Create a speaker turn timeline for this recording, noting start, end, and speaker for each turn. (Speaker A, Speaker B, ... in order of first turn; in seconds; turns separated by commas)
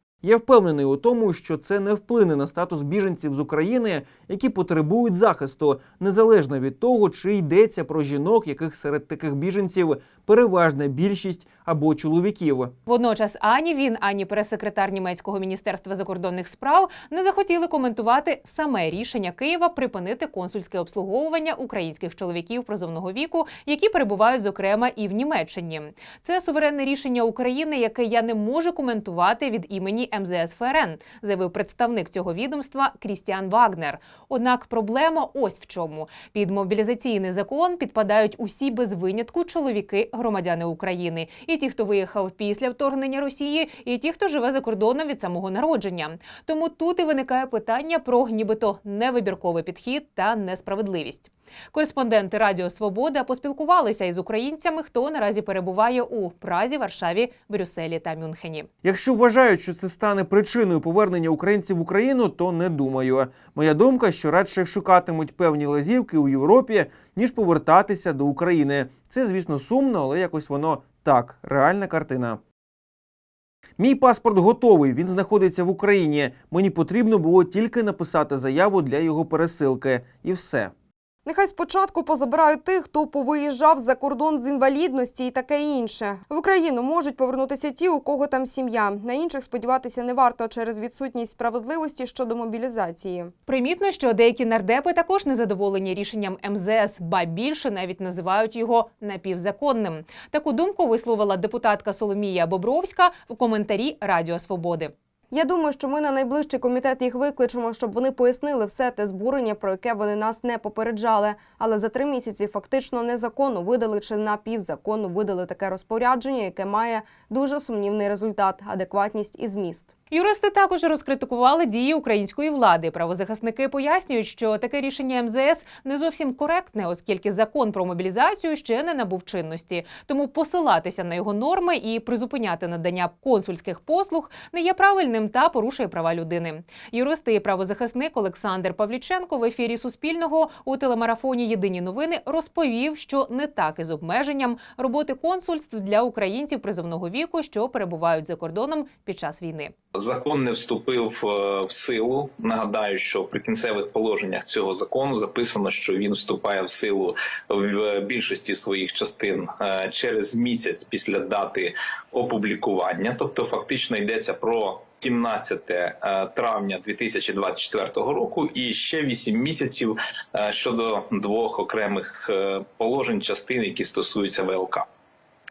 Speaker A: 0.2-12.7, Speaker B: 12.9-58.7, Speaker A: 58.8-72.4, Speaker A: 73.8-80.7, Speaker C: 81.2-93.3, Speaker B: 93.5-104.9, Speaker C: 105.3-119.9, Speaker B: 120.1-149.7, Speaker D: 149.9-174.9